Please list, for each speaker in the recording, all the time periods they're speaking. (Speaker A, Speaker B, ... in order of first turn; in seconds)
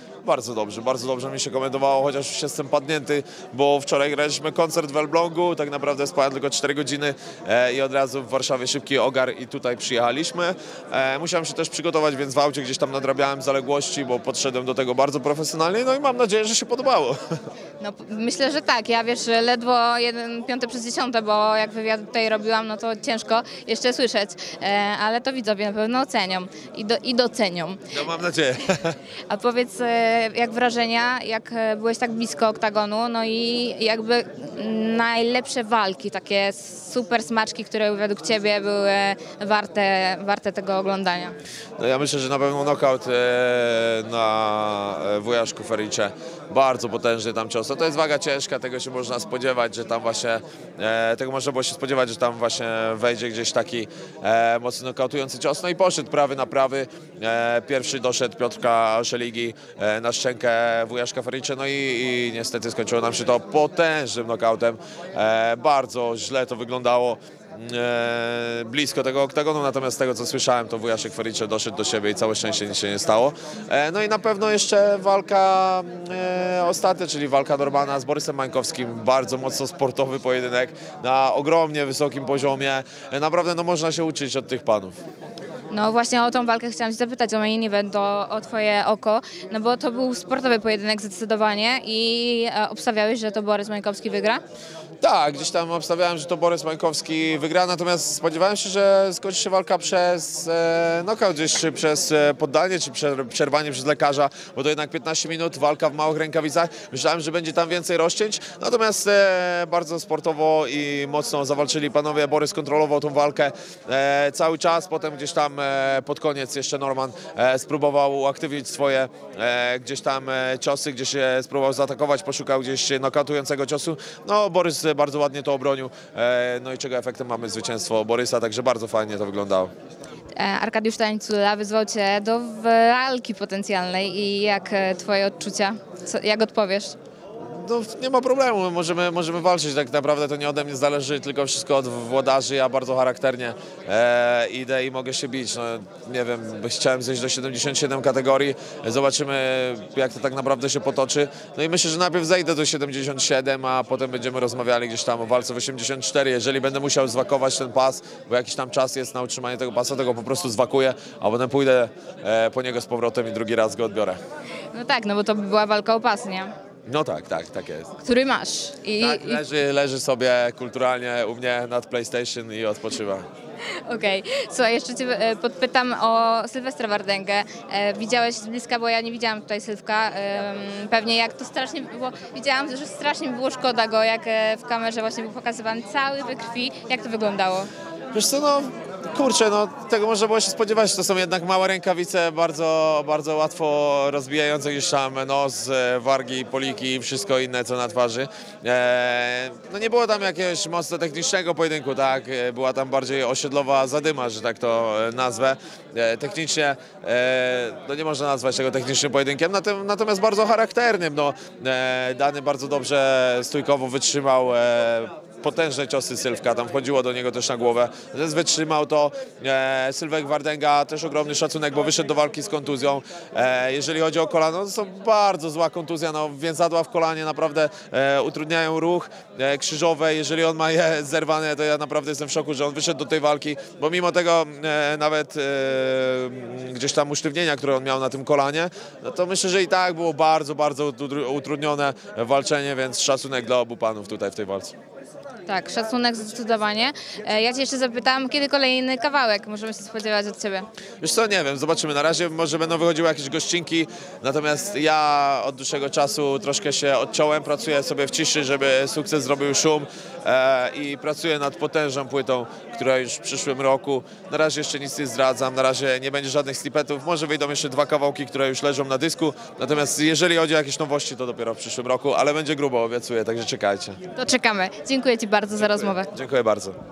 Speaker A: 0.2-17.2, 27.9-29.0, 41.8-85.0, 95.0-129.7, 137.4-164.2, 166.9-167.9, 169.0-173.2, 188.1-244.7, 251.0-274.0, 275.5-276.8
Speaker B: 17.8-27.9, 29.3-41.3, 85.7-94.4, 130.3-136.9, 164.7-166.5, 168.0-169.4, 173.8-187.7, 245.5-250.7, 274.1-276.1